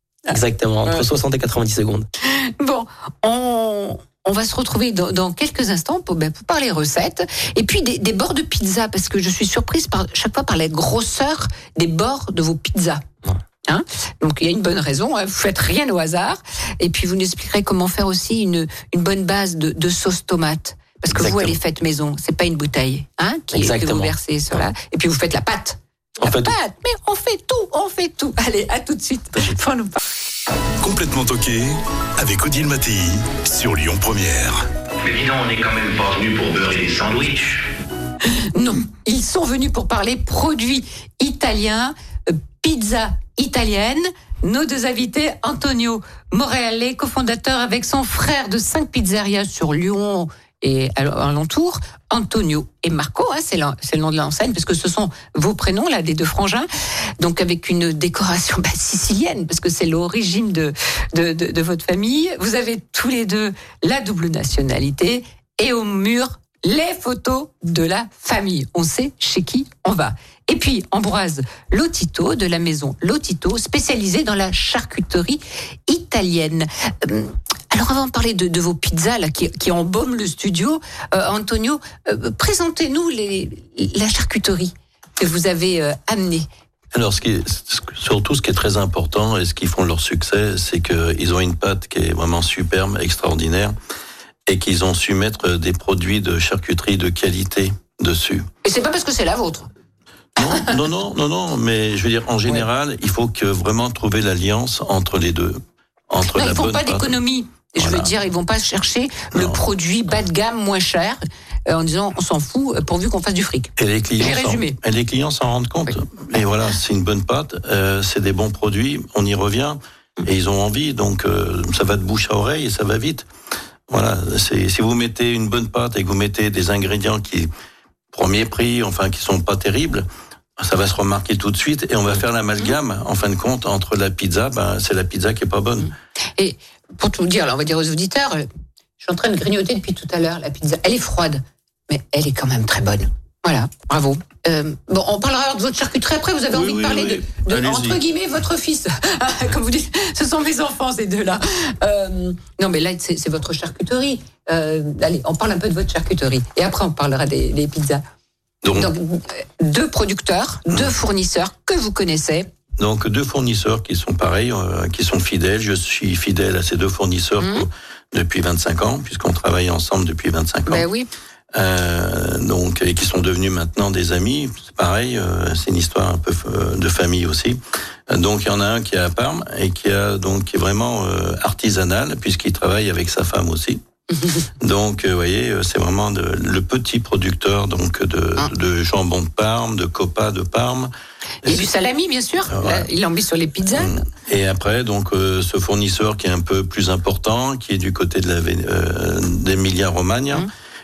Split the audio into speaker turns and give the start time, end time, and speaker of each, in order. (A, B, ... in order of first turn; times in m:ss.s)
0:00.3-0:01.0 A
0:00.3-0:02.1 B
0:02.2-0:13.0 A
0:13.7-0:30.0 A
0:21.1-0:21.6 B
0:23.5-0:24.6 B
0:26.2-0:26.6 B
0:30.8-0:34.7 C
0:35.0-0:37.6 D
0:38.6-0:56.7 A
0:57.2-1:26.5 A
1:26.9-1:33.8 E
1:34.5-1:38.5 E
1:38.6-1:39.7 A
1:40.4-1:47.1 E
1:40.4-1:40.7 A
1:46.3-1:54.8 A
1:47.8-1:48.1 E
1:49.3-1:49.6 E
1:53.8-2:03.3 E
2:03.9-2:07.5 E
2:08.1-2:10.1 E
2:10.6-2:15.9 E
2:15.8-2:18.5 A
2:19.0-2:38.0 A
2:26.5-2:28.0 E
2:38.6-2:38.9 E
2:38.7-2:42.5 A
2:42.8-2:50.9 E
2:47.4-2:47.7 A
2:50.7-2:51.1 A
2:51.5-3:03.8 E
3:04.1-3:04.4 A
3:04.6-3:10.9 E
3:11.4-3:11.7 E
3:11.4-3:14.0 A
3:12.5-3:12.9 E
3:13.7-3:20.5 E